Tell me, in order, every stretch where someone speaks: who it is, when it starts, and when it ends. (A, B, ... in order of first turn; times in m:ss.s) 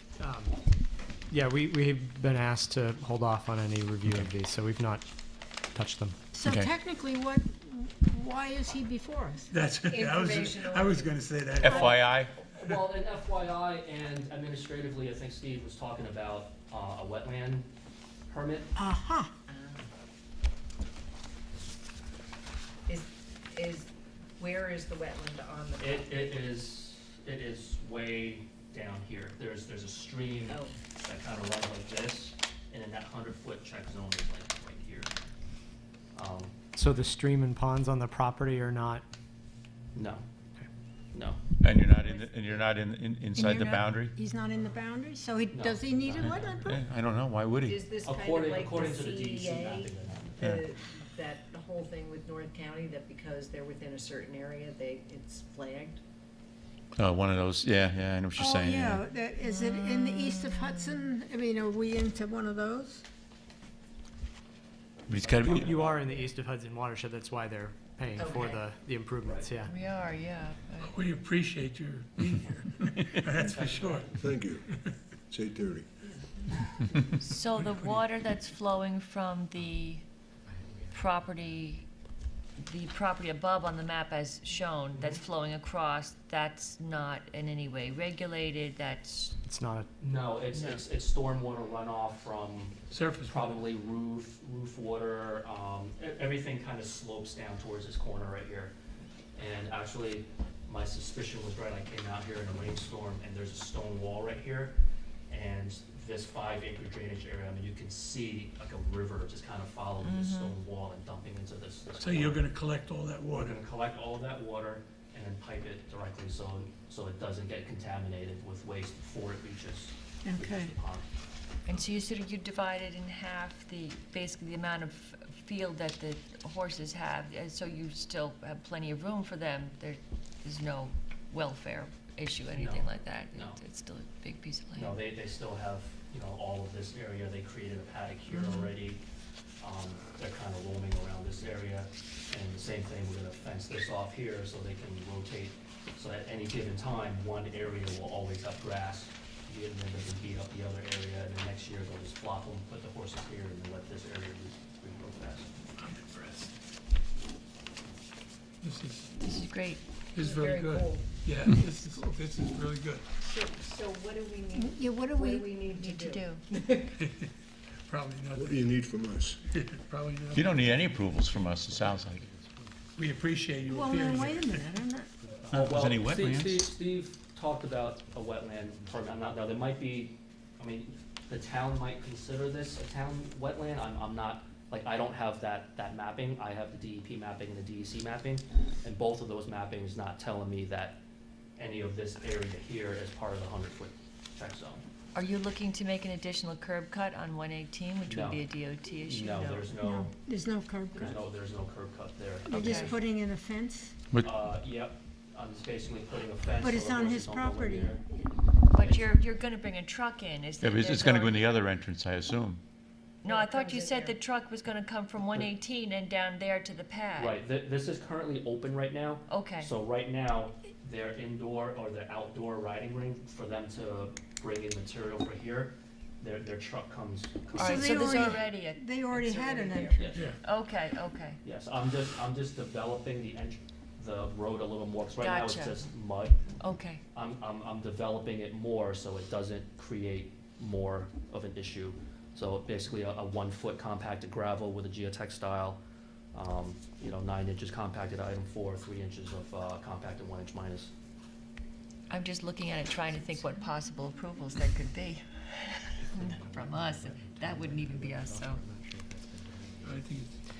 0:00.2-0:00.6 A
0:01.3-0:05.1 A
0:04.0-0:04.3 B
0:05.7-0:06.2 A
0:06.3-0:09.6 C
0:06.4-0:06.7 B
0:09.5-0:11.9 D
0:09.8-0:11.2 E
0:11.6-0:12.0 C
0:11.6-0:17.7 F
0:11.7-0:12.3 B
0:18.3-0:18.7 F
0:18.8-0:19.3 C
0:19.5-0:19.9 E
0:22.9-0:26.1 E
0:25.8-0:35.1 F
0:30.5-0:30.8 E
0:36.1-0:36.6 F
0:36.8-0:39.1 A
0:40.0-0:40.2 F
0:41.1-0:41.4 F
0:41.6-0:44.2 B
0:43.4-0:46.8 C
0:43.5-0:43.8 G
0:45.5-0:46.8 F
0:46.2-0:47.8 B
0:47.7-0:56.0 E
0:48.0-0:50.5 F
0:57.0-0:59.0 B
0:58.4-1:03.0 C
0:59.4-1:01.1 G
1:05.1-1:05.7 B
1:05.3-1:06.0 F
1:05.6-1:09.7 A
1:06.0-1:06.3 E
1:08.2-1:08.6 E
1:09.2-1:09.5 F
1:09.6-1:11.0 G
1:10.8-1:15.0 D
1:13.4-1:14.3 F
1:14.2-1:14.6 H
1:15.3-1:15.9 H
1:16.0-1:17.0 E
1:17.2-1:20.1 G
1:17.6-1:18.0 D
1:20.4-1:21.6 E
1:20.9-1:21.9 G
1:22.6-1:29.4 G
1:25.0-1:25.2 F
1:29.4-1:29.9 A
1:30.0-1:38.7 F
1:30.5-1:30.8 G
1:32.9-1:33.5 D
1:39.4-1:44.8 F
1:45.3-1:52.5 F
1:50.0-1:50.6 G
1:52.0-1:53.6 D
1:53.3-2:01.1 F
2:00.2-2:00.7 C
2:01.6-2:15.0 G
2:12.5-2:13.6 F
2:14.7-2:19.0 F
2:18.3-2:18.7 G
2:19.6-2:35.5 F
2:35.8-2:36.5 D
2:38.6-2:39.1 D
2:39.2-2:39.9 G
2:40.1-2:43.1 D
2:40.2-2:41.1 E
2:43.2-2:47.0 E
2:44.6-2:45.5 C
2:45.8-2:46.4 G
2:47.0-2:47.3 D
2:47.9-2:48.8 D
2:48.3-2:49.4 H
2:49.4-2:51.0 D
2:50.3-2:52.2 B
2:50.6-2:53.3 E
2:53.0-2:54.8 D
2:53.7-2:55.1 C
2:55.2-2:56.1 E
2:55.5-2:56.7 B
2:55.5-3:11.0 F
2:58.0-2:59.5 E
3:11.6-3:14.8 F
3:15.2-3:19.7 G
3:18.0-3:20.1 F
3:19.8-3:21.2 C
3:21.0-3:23.0 F
3:22.5-3:23.9 C
3:22.6-3:23.0 G
3:24.1-3:24.5 B
3:24.2-3:28.0 F
3:26.6-3:28.2 C
3:28.7-3:31.6 G
3:28.8-3:29.1 F
3:30.6-3:32.6 B
3:33.2-3:37.4 G
3:33.2-3:34.2 E
3:37.2-3:48.3 F
3:39.3-3:39.7 G
3:47.6-3:49.3 G
3:47.6-3:50.1 C
3:49.4-3:50.1 E
3:50.0-3:50.4 F
3:50.1-3:50.4 D
3:50.4-3:51.4 G
3:51.4-3:56.5 F
3:55.2-3:55.8 G
3:56.6-3:57.0 G
3:57.1-4:05.8 F
4:06.3-4:10.9 F
4:12.1-4:18.6 G
4:16.2-4:20.0 E
4:17.8-4:18.3 A
4:19.8-4:20.3 D